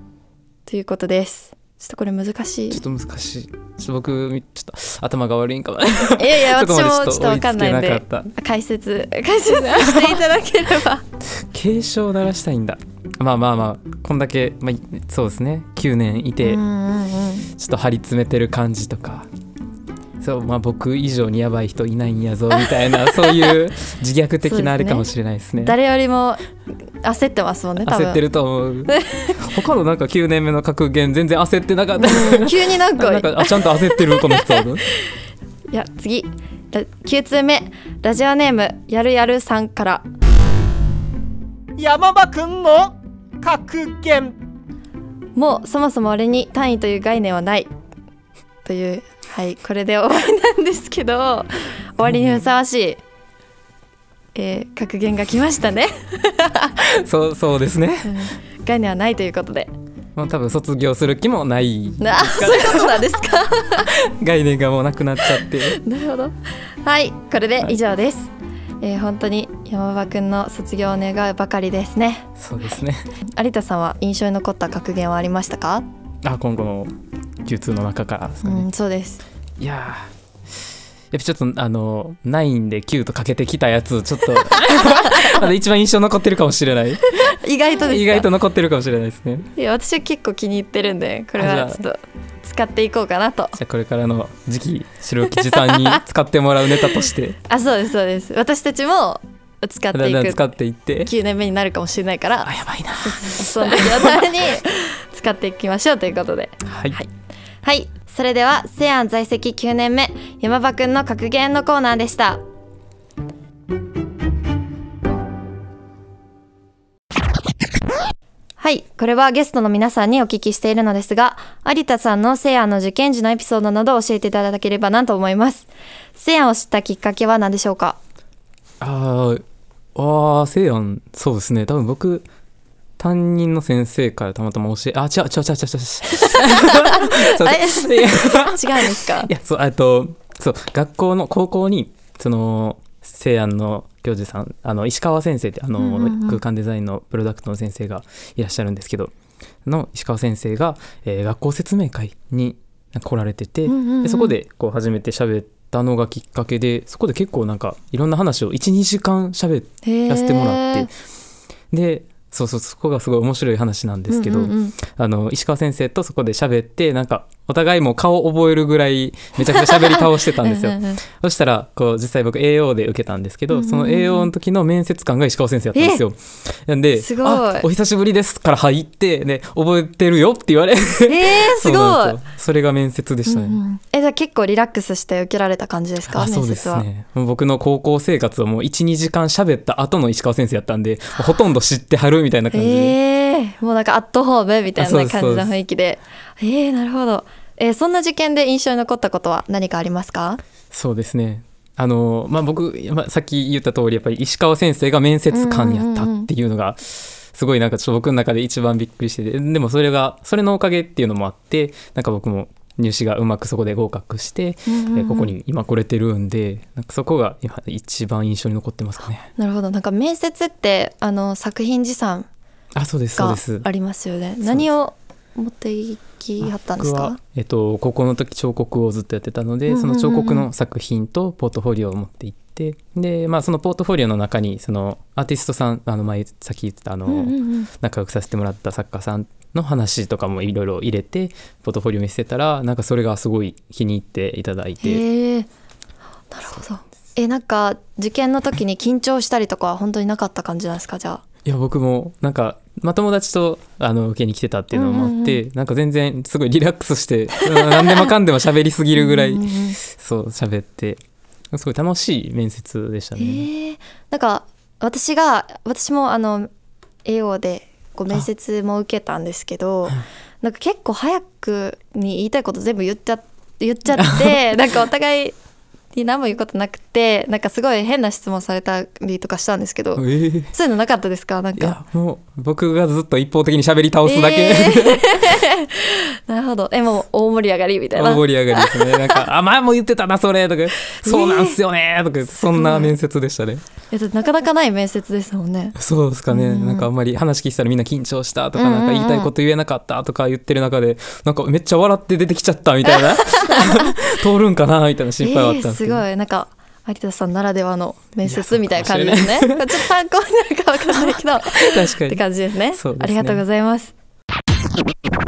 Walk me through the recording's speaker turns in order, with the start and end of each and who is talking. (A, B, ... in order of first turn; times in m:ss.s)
0:00.7-0:02.8 A
0:02.7-0:08.3 B
0:06.2-0:11.0 A
0:11.3-0:16.6 B
0:16.4-0:17.5 A
0:17.6-0:19.3 B
0:20.2-0:25.8 B
0:24.4-0:26.4 A
0:27.0-0:28.2 A
0:27.8-0:34.8 B
0:28.9-0:29.3 A
0:32.0-0:34.6 A
0:35.7-0:40.0 A
0:41.8-0:44.4 C
0:45.4-0:47.7 A
0:48.6-0:53.0 A
0:52.0-0:52.4 B
0:54.4-0:56.7 A
0:56.8-0:58.3 B
0:58.0-0:59.7 A
1:00.2-1:03.0 B
1:02.0-1:03.9 A
1:04.0-1:05.8 B
1:05.8-1:12.3 A
1:12.4-1:13.1 B
1:13.2-1:15.8 A
1:16.2-1:16.9 B
1:17.4-1:18.7 B
1:18.4-1:19.2 A
1:19.6-1:27.1 B
1:27.3-1:28.3 A
1:27.8-1:29.5 B
1:29.6-1:33.6 A
1:31.4-1:31.8 B
1:33.6-1:37.4 B
1:37.5-1:40.4 A
1:39.9-1:41.1 B
1:41.0-1:47.1 A
1:42.4-1:44.2 B
1:46.6-1:47.0 B
1:47.6-1:52.4 A
1:58.6-2:08.0 A
2:08.8-2:09.4 B
2:10.0-2:12.3 B
2:13.0-2:29.1 B
2:16.4-2:19.3 A
2:25.8-2:26.4 A
2:29.6-2:40.9 B
2:33.7-2:34.4 A
2:39.8-2:40.9 A
2:41.7-3:03.6 B
2:44.1-2:44.8 A
2:49.5-2:51.0 A
2:53.5-2:54.3 A
2:55.8-2:56.0 A
2:57.0-2:57.7 A
3:01.1-3:02.2 A
3:03.3-3:06.9 A
3:06.1-3:13.0 B
3:12.5-3:20.4 A
3:14.8-3:15.5 B
3:20.7-3:39.3 B
3:25.3-3:26.3 A
3:34.7-3:35.3 A
3:39.4-3:42.3 A
3:42.8-3:43.7 B
3:43.2-3:47.2 A
3:46.4-4:05.0 B
3:49.7-3:50.5 A
3:57.1-3:57.7 A
4:04.8-4:05.5 A
4:06.3-4:11.2 A
4:11.4-4:23.5 B
4:14.7-4:15.4 A
4:19.0-4:19.8 A
4:23.2-4:26.5 A
4:27.0-4:35.4 A
4:34.0-4:34.4 B
4:35.9-4:41.8 A
4:40.0-4:40.5 B
4:41.6-4:45.2 B
4:44.0-4:49.2 A
4:48.0-4:53.6 B
4:50.9-4:51.6 A
4:52.4-4:52.9 A
4:53.9-4:55.8 A
4:55.8-5:06.0 B
4:56.3-4:56.9 A
4:58.6-4:59.3 A
5:02.9-5:03.9 A
5:05.2-5:13.9 A
5:08.2-5:09.8 B
5:11.6-5:12.2 B
5:12.7-5:13.4 B